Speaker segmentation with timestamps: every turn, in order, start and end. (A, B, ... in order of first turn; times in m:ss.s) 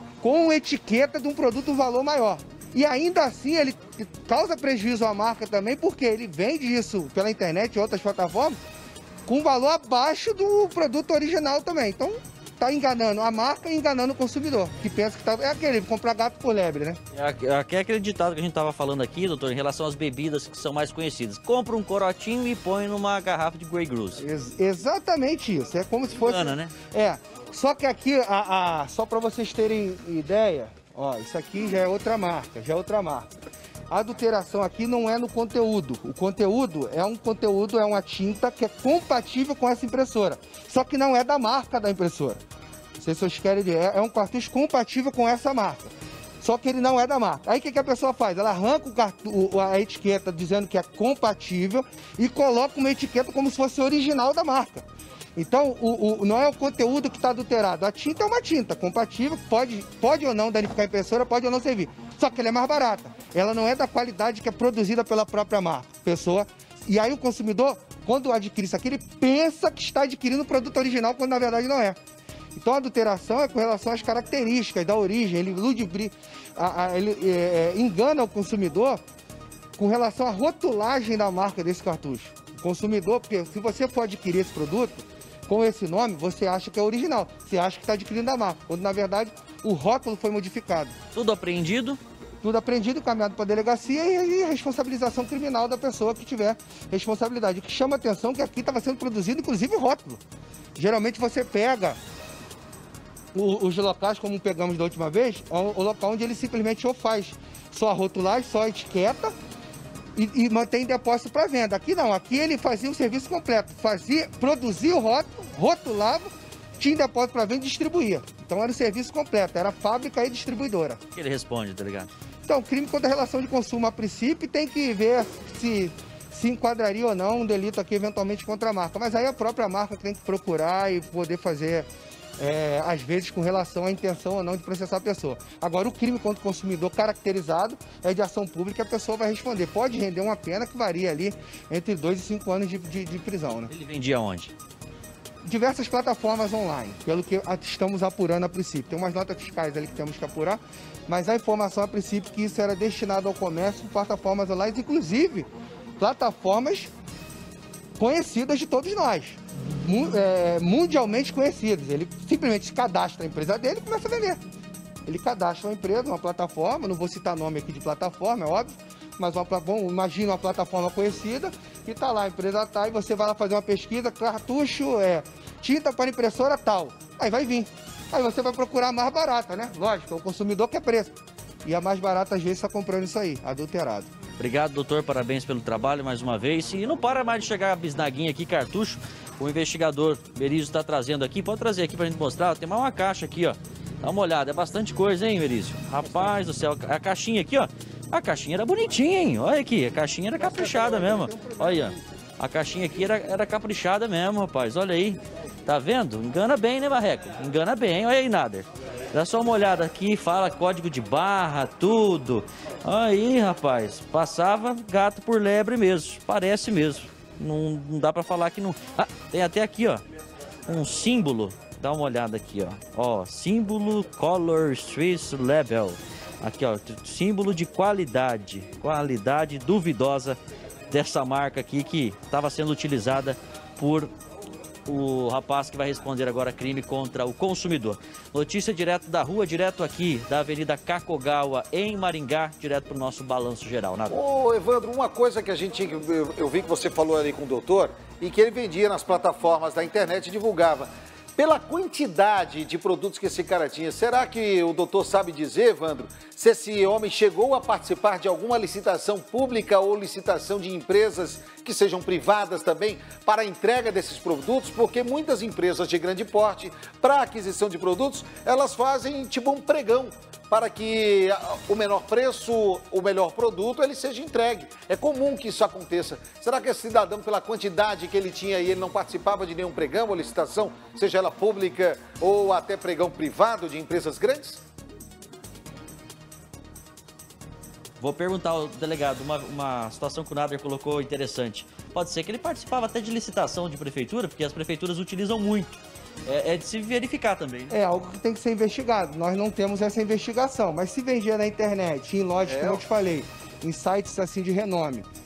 0:00.2-0:08.6 A
0:09.2-0:17.0 A
0:17.1-0:24.2 B
0:24.2-0:33.3 A
0:26.2-0:26.7 B
0:33.9-0:42.4 A
0:43.0-1:12.0 A
1:12.5-1:19.0 A
1:19.8-1:30.9 A
1:31.1-1:32.0 B
1:32.4-1:40.2 A
1:40.8-1:42.0 A
1:43.3-1:49.3 A
1:50.1-2:01.0 A
2:01.1-2:02.1 B
2:02.5-2:23.7 A
2:23.7-2:24.5 B
2:25.4-2:36.9 A
2:38.0-2:44.4 A
2:45.0-3:04.1 A
3:04.4-3:40.0 B
3:40.7-3:50.4 B
3:50.9-3:54.1 B
3:54.9-4:04.2 B
4:04.1-4:44.6 C
4:48.0-4:57.8 B
4:57.7-5:05.1 A
5:02.4-5:02.8 C